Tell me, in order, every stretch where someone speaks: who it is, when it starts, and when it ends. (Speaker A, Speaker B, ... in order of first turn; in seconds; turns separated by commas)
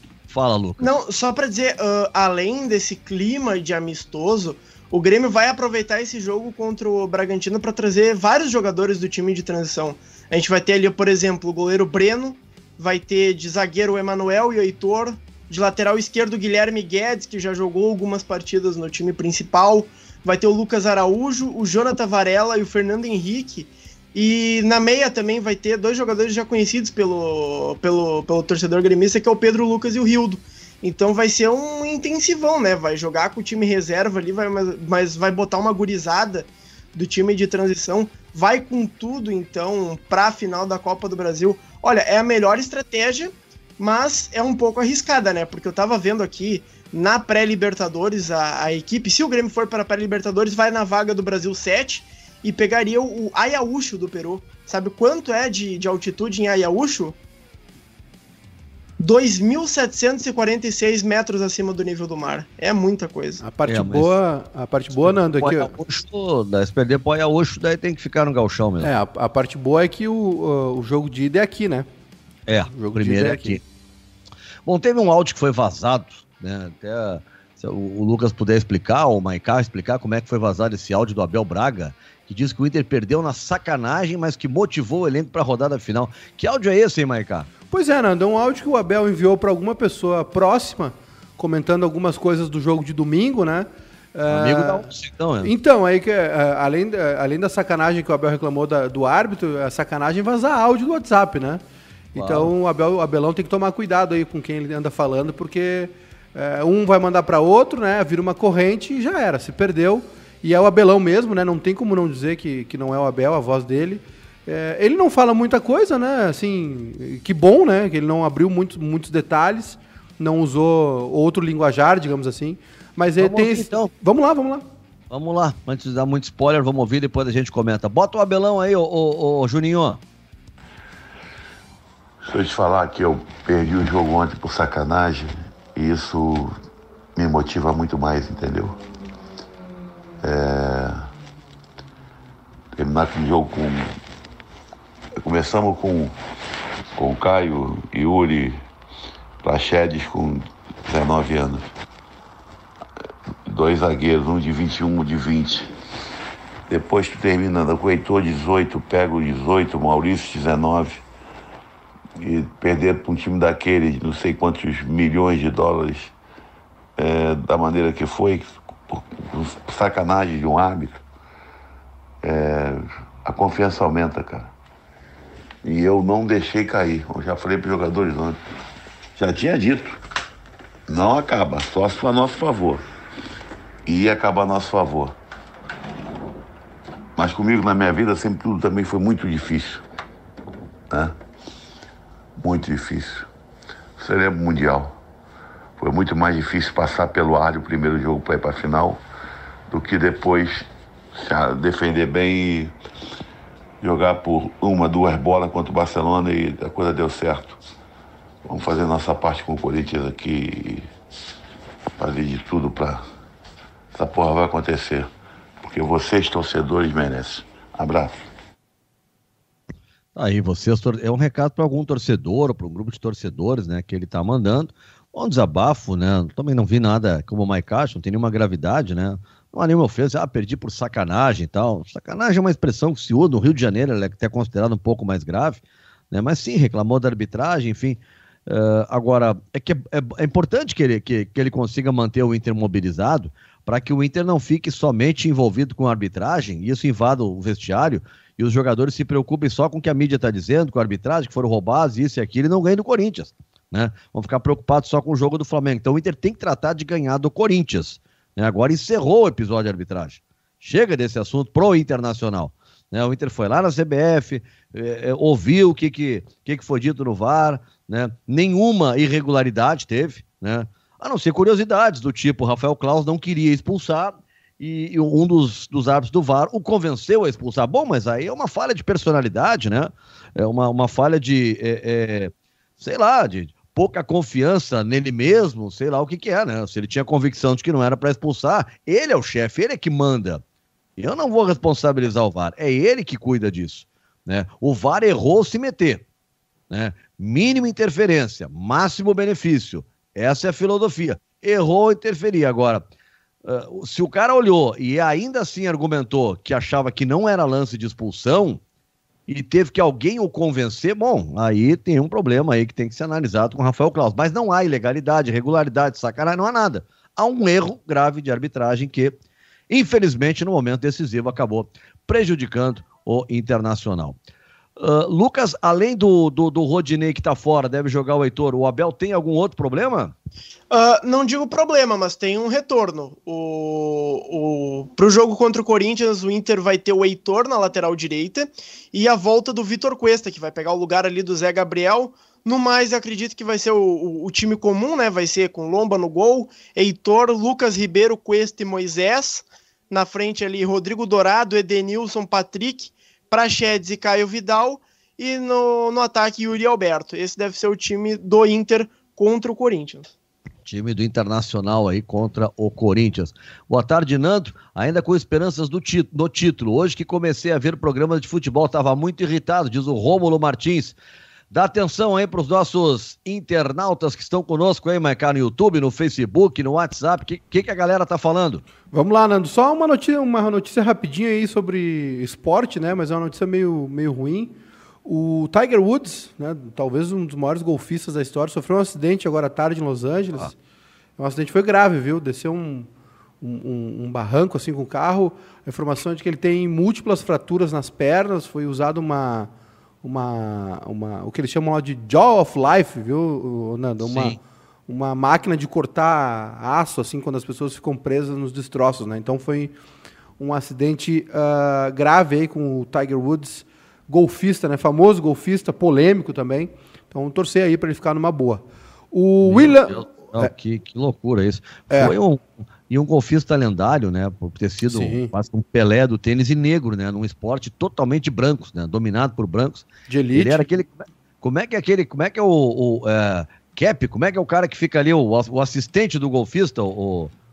Speaker A: 0.3-0.9, Speaker B: 0.8-57.2, Speaker B: 59.0-63.4, Speaker C: 63.4-65.7, Speaker A: 63.7-64.2, Speaker A: 64.9-68.9, Speaker C: 68.8-71.9, Speaker A: 72.5-73.6, Speaker C: 72.7-73.6, Speaker A: 74.7-87.5, Speaker C: 87.7-94.9, Speaker A: 94.3-95.5, Speaker C: 95.4-101.6, Speaker C: 102.1-124.7, Speaker A: 102.2-102.5, Speaker A: 123.2-123.9, Speaker A: 125.1-130.0, Speaker D: 132.2-136.6, Speaker D: 137.2-138.8, Speaker D: 140.2-141.1, Speaker D: 142.8-143.9, Speaker D: 145.2-146.2, Speaker D: 146.9-148.6, Speaker D: 149.4-151.7, Speaker D: 153.5-155.7, Speaker D: 156.7-161.0, Speaker D: 162.2-166.1, Speaker D: 166.9-171.0, Speaker D: 172.2-174.5, Speaker D: 175.6-178.4, Speaker D: 179.2-180.0, Speaker D: 180.9-182.9, Speaker D: 183.9-185.2, Speaker D: 187.2-189.8, Speaker D: 192.4-193.3, Speaker D: 194.0-194.9, Speaker D: 195.8-199.0, Speaker D: 199.7-202.7, Speaker D: 203.8-207.6, Speaker D: 208.4-210.9, Speaker D: 212.0-213.0, Speaker D: 213.9-215.1, Speaker D: 215.6-218.3, Speaker A: 220.2-235.6, Speaker A: 236.1-290.4, Speaker A: 291.0-296.0, Speaker A: 296.7-302.8, Speaker A: 303.4-308.6, Speaker A: 309.3-319.1, Speaker A: 319.7-324.2, Speaker A: 324.8-330.1, Speaker B: 330.7-360.1, Speaker A: 360.6-370.9, Speaker A: 371.5-378.6, Speaker C: 378.9-384.5, Speaker C: 385.1-390.5, Speaker C: 391.2-392.9, Speaker C: 393.4-399.5, Speaker C: 400.0-409.7, Speaker A: 404.0-404.4, Speaker C: 410.4-420.5, Speaker A: 419.4-437.3, Speaker C: 424.9-425.3, Speaker C: 430.1-430.6